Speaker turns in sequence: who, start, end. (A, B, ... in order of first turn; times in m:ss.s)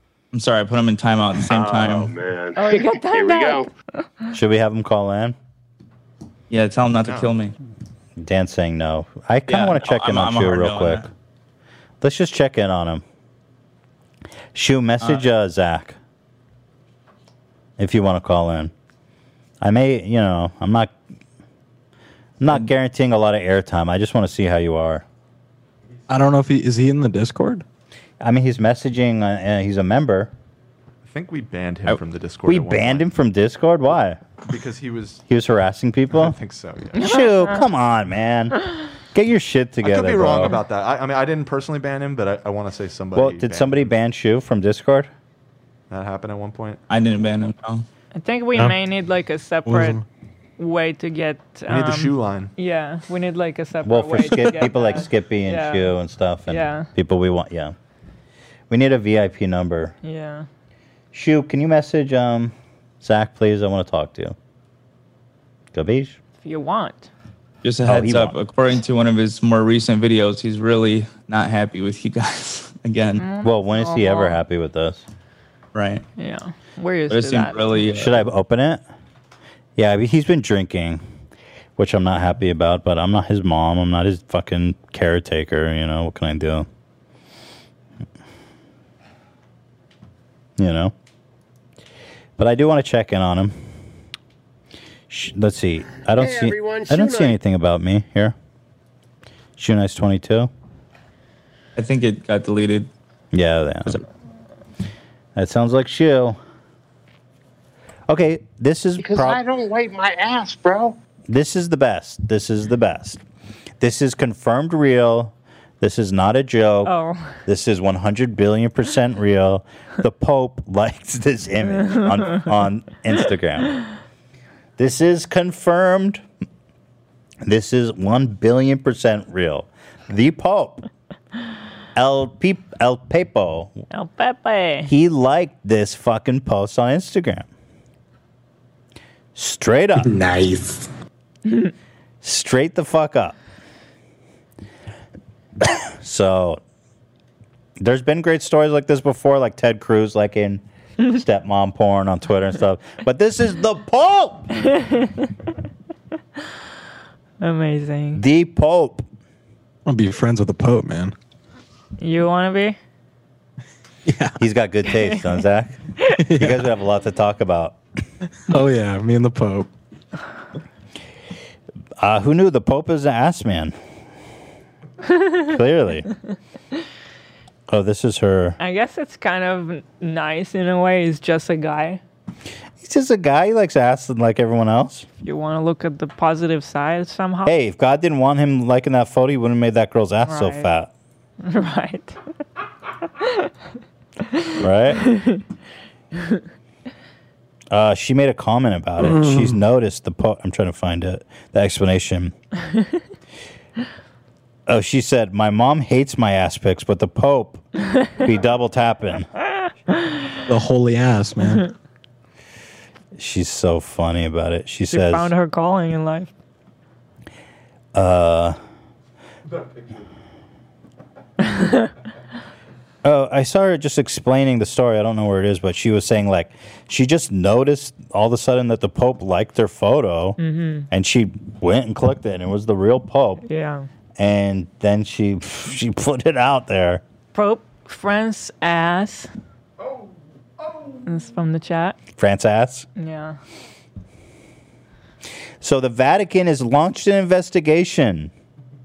0:00.3-0:02.1 A
0:01.4-0:03.7 B
0:02.6-0:03.7 C
0:04.3-0:05.4 D
0:06.5-0:07.5 A
0:07.0-0:07.3 E
0:08.2-0:11.1 D
0:09.5-0:11.1 A
0:12.0-0:13.0 D
0:14.5-0:16.0 D
0:17.8-0:18.7 D
0:19.6-0:20.9 D
0:22.4-0:25.0 D
0:26.1-0:27.6 F
0:28.2-0:30.3 D
0:31.0-0:33.1 E
0:32.4-0:34.2 D
0:34.4-0:35.2 E
0:35.3-0:36.4 D
0:36.1-0:37.1 E
0:37.0-0:37.6 C
0:37.0-0:38.6 D
0:39.1-0:40.6 D
0:39.8-0:43.9 E
0:43.1-0:45.1 D
0:45.9-0:46.8 E
0:46.9-0:47.8 A
0:48.1-0:50.0 C
0:49.6-0:50.0 F
0:50.6-0:55.9 C
0:51.7-0:52.5 E
0:53.8-0:57.8 D
0:56.5-0:56.9 C
0:58.7-0:59.9 D
1:00.0-1:00.5 C
1:01.1-1:04.4 D
1:05.7-1:06.2 D
1:06.4-1:07.1 C
1:07.6-1:13.2 A
1:07.8-1:08.4 D
1:13.2-1:14.4 C
1:13.4-1:15.0 D
1:15.7-1:16.0 A
1:16.2-1:17.6 C
1:17.1-1:18.3 A
1:17.9-1:18.8 D
1:19.8-1:21.0 D
1:21.8-1:26.7 D
1:30.6-1:30.9 D
1:32.4-1:33.7 D
1:35.1-1:38.3 D
1:36.2-1:37.4 B
1:39.6-1:40.5 D
1:41.8-1:42.9 A
1:43.3-1:44.0 D
1:45.4-1:46.4 D
1:48.1-1:49.4 D
1:49.0-1:51.0 G
1:51.3-1:53.2 D
1:53.8-1:56.9 D
1:56.8-1:57.4 C
1:57.4-2:03.8 D
2:01.8-2:02.4 C
2:04.8-2:06.2 D
2:07.4-2:10.8 D
2:11.9-2:13.8 D
2:13.9-2:14.9 C
2:14.8-2:17.5 D
2:19.3-2:20.1 D
2:21.5-2:21.7 C
2:22.2-2:23.4 D
2:26.0-2:26.6 D
2:27.8-2:34.5 D
2:34.6-2:35.2 C
2:37.4-2:38.2 C
2:38.2-2:39.0 D
2:39.8-2:41.1 F
2:42.0-2:42.8 C
2:44.0-2:44.4 F
2:44.4-2:45.8 D
2:44.8-2:45.2 C
2:46.2-2:46.7 F
2:46.3-2:47.8 D
2:48.5-2:49.7 F
2:52.0-2:53.8 D
2:55.5-2:56.1 D
2:57.7-2:58.6 D
2:58.6-3:02.0 C
3:02.8-3:05.1 D
3:05.2-3:07.5 C
3:07.4-3:10.9 D
3:10.3-3:10.7 C
3:11.4-3:12.2 C
3:13.2-3:13.5 C
3:14.6-3:15.0 D
3:15.0-3:15.4 C
3:17.7-3:22.3 D
3:19.0-3:19.5 F
3:24.7-3:27.6 D
3:28.2-3:29.3 D
3:30.5-3:31.6 F
3:33.1-3:35.3 D
3:34.9-3:36.3 C
3:37.9-3:38.6 D
3:41.5-3:41.9 C
3:43.0-3:50.4 D
3:50.4-3:50.9 C
3:50.9-3:53.4 D
3:53.5-3:53.9 C
3:54.2-3:57.0 D
3:57.3-3:59.3 C
4:01.0-4:02.0 C
4:02.2-4:02.9 D
4:03.0-4:03.4 C
4:05.6-4:08.3 D